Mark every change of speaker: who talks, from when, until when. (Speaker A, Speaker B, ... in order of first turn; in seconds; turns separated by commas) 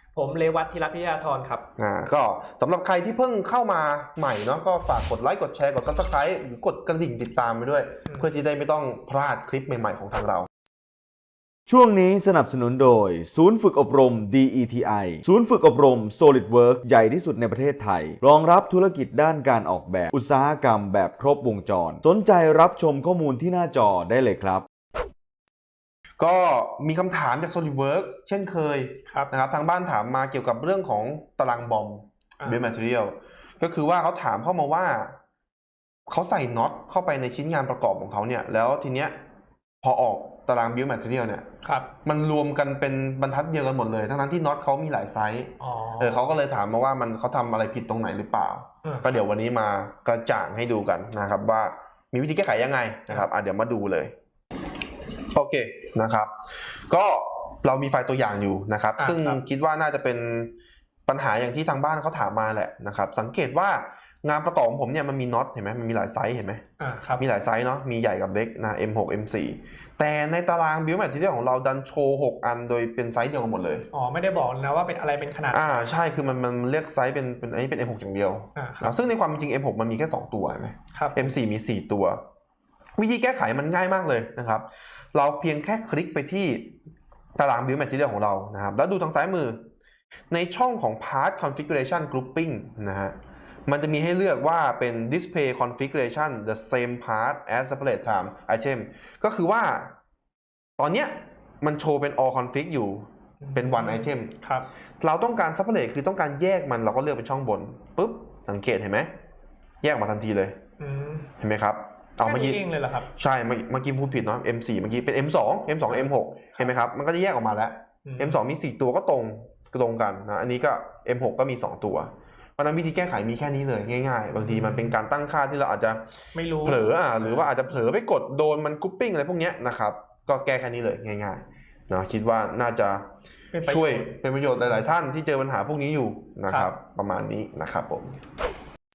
Speaker A: 0.1-1.6, Speaker B: 1.8-10.5, Speaker C: 11.7-24.6, Speaker B: 26.2-35.1, Speaker B: 36.1-39.1, Speaker B: 39.8-41.5, Speaker A: 41.6-41.9, Speaker B: 42.0-54.1, Speaker A: 45.6-46.2, Speaker A: 48.8-49.2, Speaker B: 55.3-56.3, Speaker B: 56.9-60.5, Speaker A: 59.0-59.4, Speaker B: 61.1-66.6, Speaker A: 66.8-67.2, Speaker B: 67.2-73.9, Speaker A: 73.9-75.7, Speaker B: 75.5-82.2, Speaker A: 78.6-79.0, Speaker A: 80.9-81.3, Speaker B: 83.0-86.8, Speaker B: 87.4-89.6, Speaker B: 90.3-93.2, Speaker B: 93.7-99.9, Speaker B: 100.8-104.3, Speaker A: 103.4-104.7, Speaker B: 105.0-109.1, Speaker B: 109.8-110.6, Speaker A: 110.8-111.3, Speaker B: 111.4-126.0, Speaker A: 112.2-113.1, Speaker A: 115.9-116.7, Speaker A: 118.1-118.4, Speaker A: 124.4-125.0, Speaker A: 126.3-127.5, Speaker B: 126.6-133.1, Speaker A: 133.5-134.1, Speaker B: 133.7-138.2